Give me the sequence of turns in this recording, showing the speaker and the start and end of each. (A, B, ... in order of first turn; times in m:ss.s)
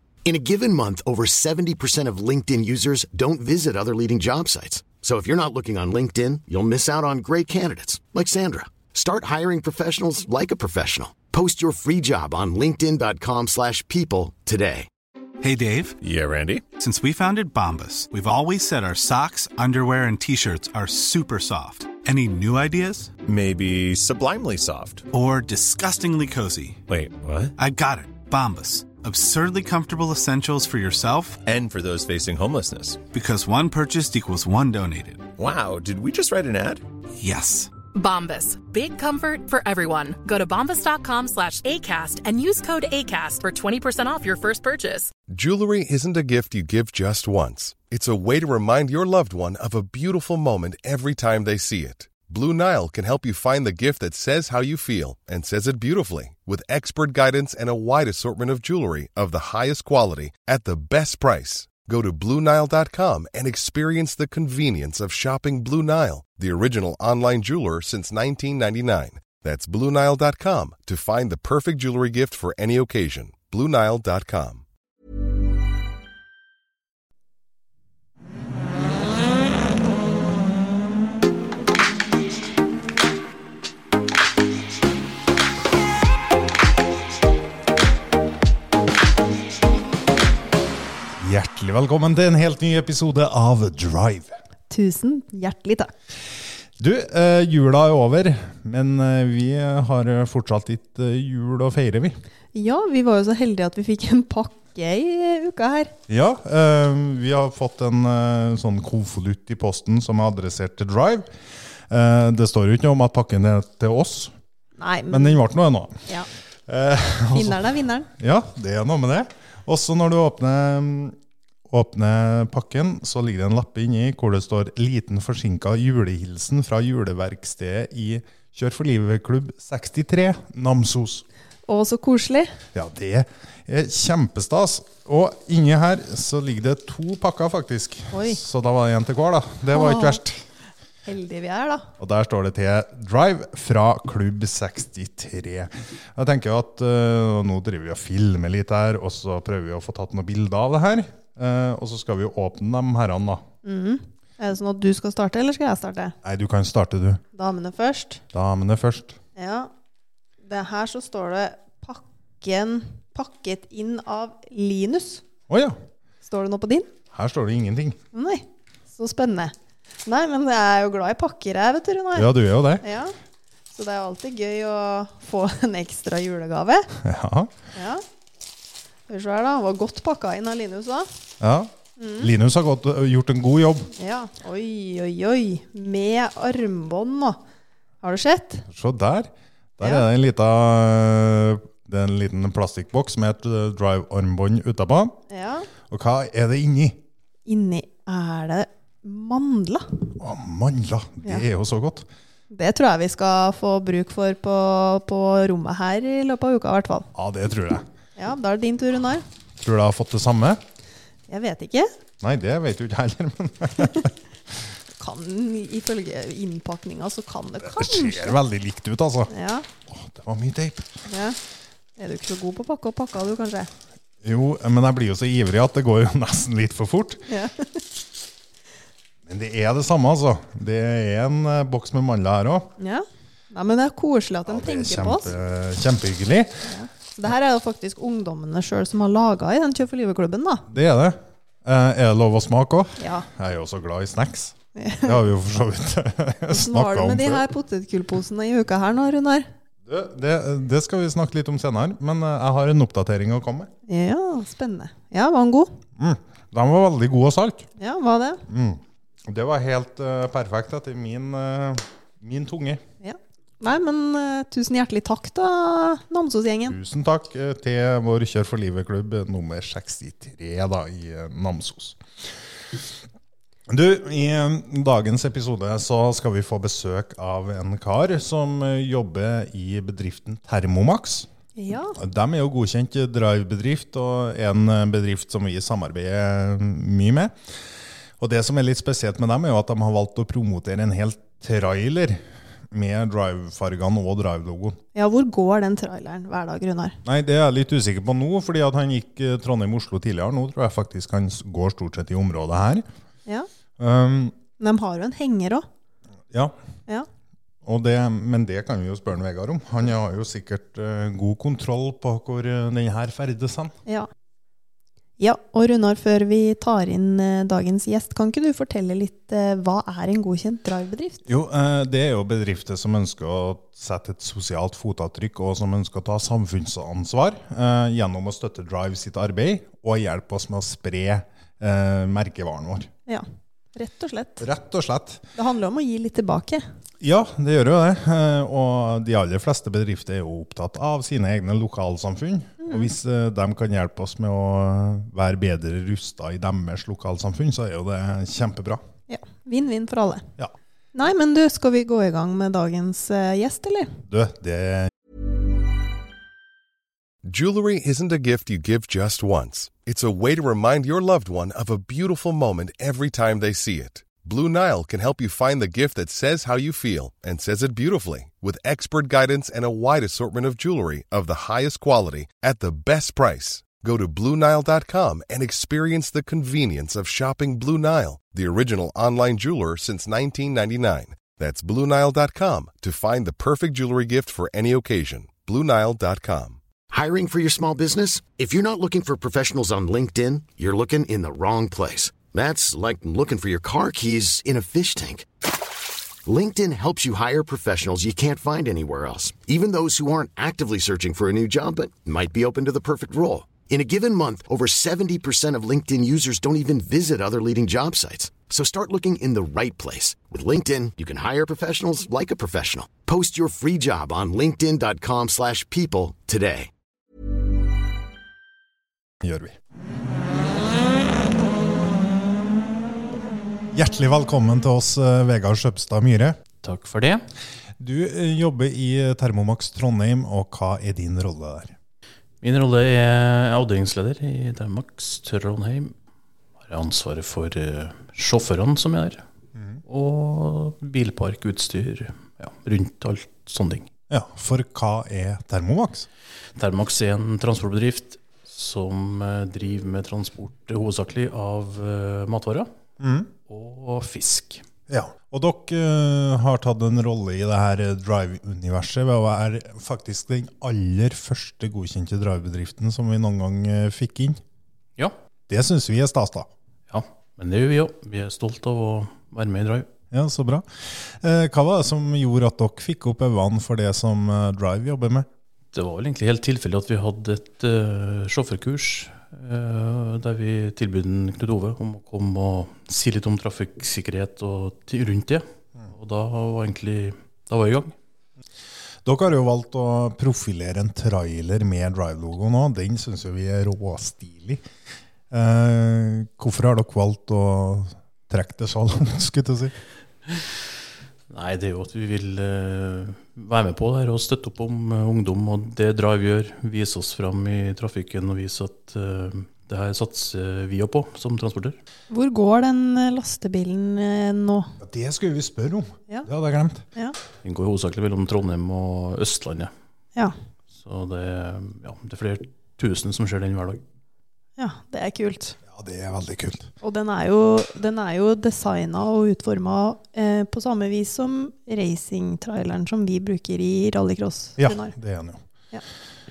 0:00.3-0:14.9 A
0:15.4-0:16.0 B
0:16.0-0:16.6 C
0:16.7-0:23.1 B
0:23.3-0:25.1 C
0:25.1-0:26.8 B
0:26.9-0:27.5 C
0:27.6-0:31.4 B
0:31.5-0:33.0 C
0:33.1-0:35.3 B
0:35.4-0:36.8 C
0:37.2-0:37.7 B
0:37.9-0:45.1 D
0:45.3-1:14.6 E
1:31.2-1:34.4 F
1:34.7-1:35.9 G
1:36.8-1:42.2 F
1:42.6-1:45.9 G
1:46.1-1:51.3 F
1:51.9-1:54.3 F
1:54.8-1:55.4 G
1:55.1-1:56.0 F
1:56.7-2:01.2 F
1:57.3-1:58.1 G
2:01.7-2:11.2 F
2:11.7-2:12.5 G
2:12.7-2:20.4 F
2:18.1-2:18.4 G
2:19.7-2:20.2 G
2:21.1-2:21.9 G
2:22.0-2:33.4 F
2:33.6-2:36.2 G
2:36.2-2:37.2 F
2:37.3-2:38.2 G
2:38.3-2:39.2 F
2:39.4-2:39.7 G
2:40.4-2:45.2 G
2:45.5-2:45.8 F
2:46.2-2:46.9 G
2:47.1-2:48.0 F
2:48.1-2:49.5 G
2:50.1-2:53.1 G
2:52.2-2:52.8 F
2:53.7-2:56.9 G
2:57.0-2:57.5 F
2:57.8-2:58.0 G
2:59.1-3:01.1 G
3:01.4-3:03.9 F
3:02.0-3:02.3 G
3:04.0-3:07.4 G
3:08.0-3:08.6 G
3:08.7-3:15.2 F
3:15.3-3:15.7 G
3:15.9-3:17.0 F
3:17.5-3:20.0 G
3:20.2-3:22.1 F
3:22.5-3:27.1 G
3:27.1-3:27.9 F
3:28.2-3:29.2 G
3:29.6-3:30.6 F
3:31.3-3:31.9 G
3:32.2-3:34.6 F
3:35.0-3:38.4 G
3:37.6-3:39.3 F
3:39.3-3:39.7 G
3:39.9-3:41.0 F
3:41.1-3:41.4 G
3:42.0-3:43.7 G
3:44.2-3:47.2 F
3:47.3-3:47.8 G
3:49.3-3:52.7 F
3:52.8-3:55.3 G
3:54.5-3:56.7 F
3:56.6-4:00.7 G
4:00.7-4:07.5 F
4:03.0-4:03.3 G
4:04.8-4:05.2 G
4:06.5-4:09.5 G
4:09.9-4:13.7 F
4:13.9-4:15.8 G
4:16.0-4:17.7 F
4:17.8-4:18.4 G
4:18.5-4:22.8 F
4:23.0-4:26.8 G
4:26.7-4:32.9 F
4:33.7-4:41.3 F
4:41.6-4:42.0 G
4:42.0-4:47.4 F
4:48.2-4:54.8 F
4:55.0-4:57.0 G
4:57.0-5:02.9 F
5:03.8-5:04.4 F
5:04.6-5:05.6 G
5:06.3-5:06.6 F
5:07.6-5:13.8 F
5:15.2-5:21.2 G
5:21.3-5:32.9 F
5:33.1-5:34.4 G
5:34.4-5:35.3 F
5:35.4-5:36.6 G
5:37.0-5:48.8 F
5:42.6-5:42.9 G
5:49.1-5:50.3 G
5:51.0-5:54.0 G
5:54.1-5:54.9 F
5:57.2-6:26.6 E
6:26.9-6:35.3 A
6:36.3-6:56.7 A
6:59.2-6:59.6 F
7:03.7-7:06.4 F
7:06.6-7:07.2 H
7:07.8-7:11.8 F
7:12.4-7:15.9 H
7:16.6-7:19.2 H
7:19.6-7:19.8 F
7:19.9-7:23.9 H
7:24.1-7:26.1 F
7:26.6-7:32.7 H
7:33.0-7:33.3 F
7:33.5-7:34.6 H
7:34.9-7:44.4 F
7:45.5-7:46.5 F
7:46.9-7:49.9 H
7:50.1-7:55.3 F
7:55.7-8:07.9 H
8:09.0-8:14.6 F
8:15.3-8:19.7 F
8:21.3-8:31.8 H
8:32.1-8:34.7 G
8:34.8-8:36.9 F
8:37.4-8:39.7 H
8:40.7-8:43.8 H
8:44.6-8:45.6 G
8:45.7-8:46.7 F
8:46.8-8:54.9 G
8:54.6-8:55.4 F